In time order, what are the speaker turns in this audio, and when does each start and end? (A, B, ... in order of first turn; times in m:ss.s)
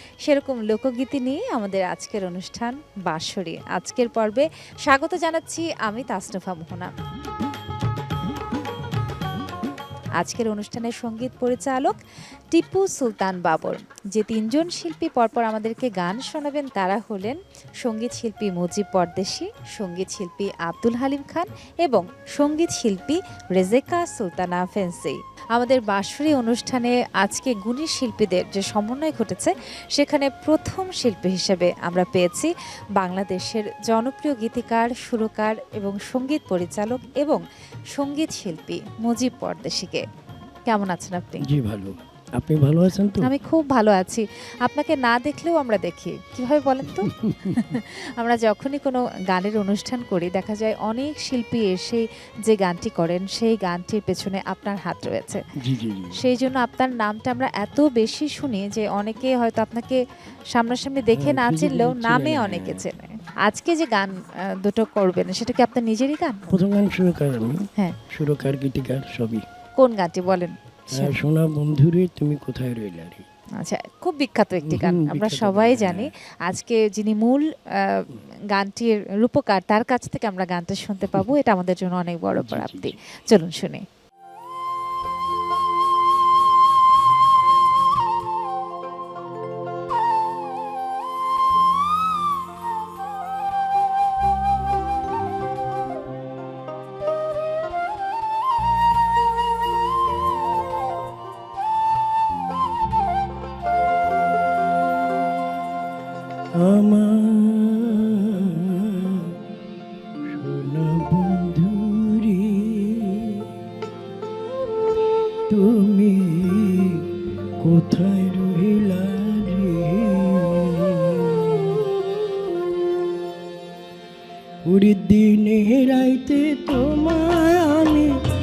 0:00.3-0:06.9 A
0:10.2-0:12.0 A
0:12.5-0:37.4 A
0:38.0-0:40.0 A
0:40.7-0:41.4 A
0:41.4-0:43.3 B
0:43.2-0:55.4 A
0:47.1-0:47.7 B
0:55.6-0:56.2 B
0:56.2-1:00.0 A
1:00.5-1:06.4 A
1:01.2-1:02.9 B
1:06.5-1:09.4 B
1:09.8-1:11.2 A
1:10.9-1:13.3 B
1:13.6-1:23.8 A
1:14.6-1:16.1 B
1:22.4-1:23.0 B
1:46.6-1:49.4 B
1:50.3-1:53.5 B
1:55.5-1:57.1 B
1:57.6-2:02.1 B
2:04.6-2:08.1 B